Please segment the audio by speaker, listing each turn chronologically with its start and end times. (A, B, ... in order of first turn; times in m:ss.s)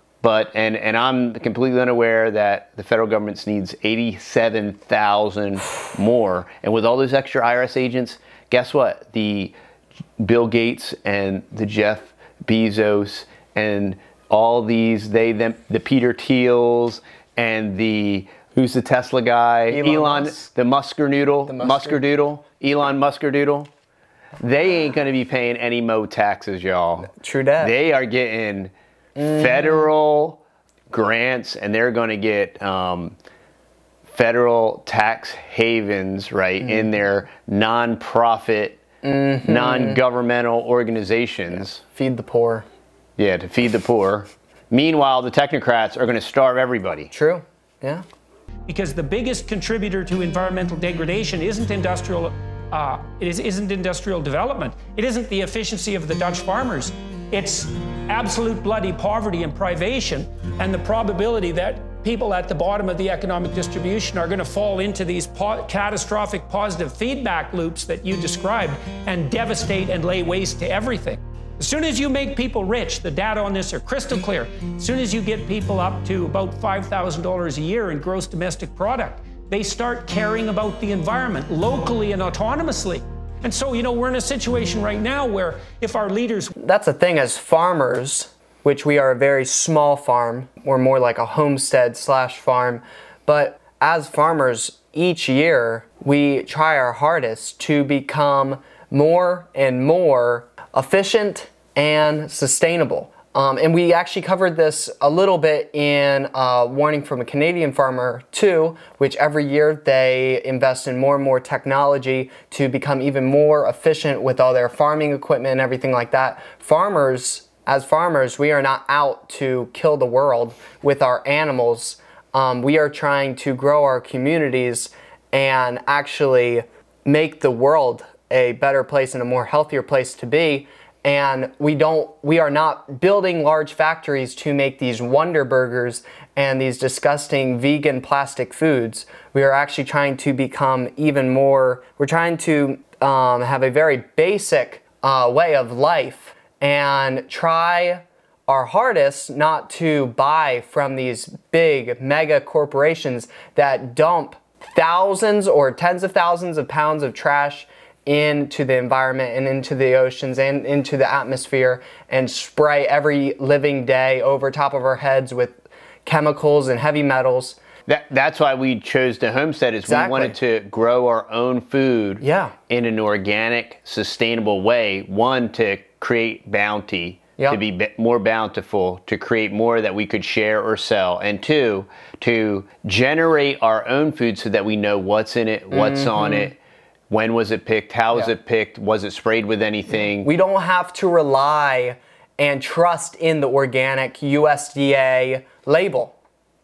0:00.2-0:09.5 A
0:10.2-0:23.7 A
0:19.7-0:20.4 B
0:21.5-0:22.0 B
0:24.4-0:28.7 A
0:27.1-0:27.7 B
0:29.2-0:29.8 B
0:29.2-0:33.2 A
0:34.1-0:38.8 A
0:39.0-0:40.0 B
0:39.4-0:41.8 A
0:41.8-0:42.6 B
0:43.2-0:47.1 A
0:47.1-0:48.0 B
0:48.7-1:26.5 C
1:26.6-2:47.6 B
2:47.9-3:06.6 A
2:49.8-2:50.3 B
2:52.2-2:52.5 B
3:05.7-3:06.5 B
3:07.1-3:10.3 A
3:10.0-3:16.1 B